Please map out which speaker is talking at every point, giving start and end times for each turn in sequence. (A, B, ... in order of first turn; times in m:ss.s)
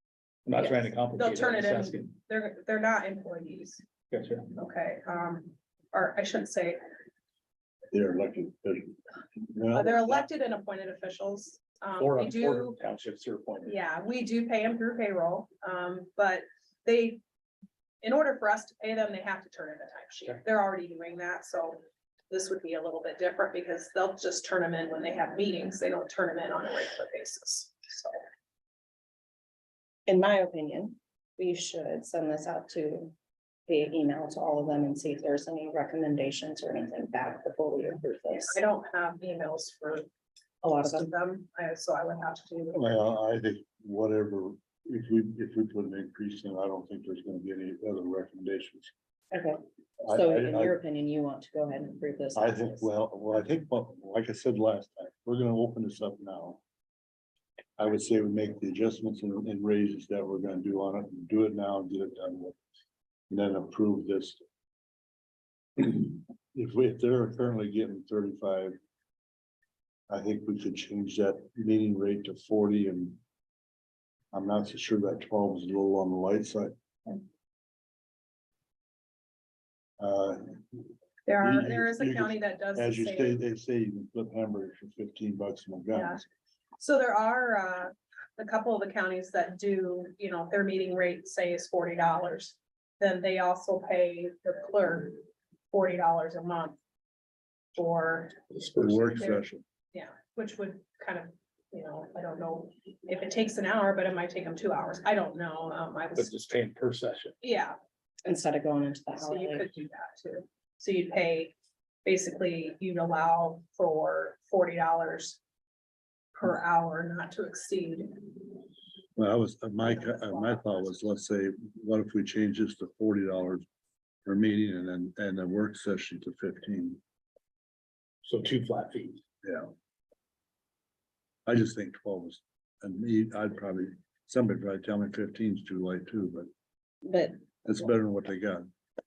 0:00.4-0:02.1 A
0:01.2-0:03.8 B
0:04.1-0:04.5 A
0:04.6-0:06.8 B
0:07.9-0:10.2 C
0:09.7-0:12.8 B
0:12.0-0:13.7 A
0:13.6-0:17.2 B
0:18.0-0:28.2 B
0:30.1-0:33.1 D
0:33.7-0:38.6 D
0:38.3-0:40.1 B
0:40.6-0:41.1 D
0:40.8-0:43.1 B
0:42.7-0:48.9 C
0:49.3-0:49.6 D
0:50.0-0:50.8 C
0:50.1-0:52.9 D
0:52.4-0:56.6 C
0:57.8-1:02.6 C
1:03.3-1:04.4 C
1:05.8-1:08.8 C
1:10.1-1:13.2 C
1:14.3-1:17.2 C
1:20.0-1:20.8 C
1:21.2-1:23.4 B
1:21.4-1:26.2 C
1:25.9-1:26.2 B
1:26.8-1:36.8 B
1:37.7-1:38.4 B
1:38.5-1:39.3 A
1:38.8-1:39.6 C
1:39.2-1:46.3 B
1:46.2-1:47.4 A
1:47.4-1:47.8 B
1:48.2-1:49.7 D
1:49.2-1:55.4 B
1:56.3-1:58.6 B
1:59.2-2:03.6 C
1:59.8-2:01.1 B
2:04.2-2:07.0 C
2:08.2-2:09.2 A
2:09.4-2:09.7 C
2:11.4-2:16.5 C
2:17.0-2:17.4 D
2:17.6-2:18.7 C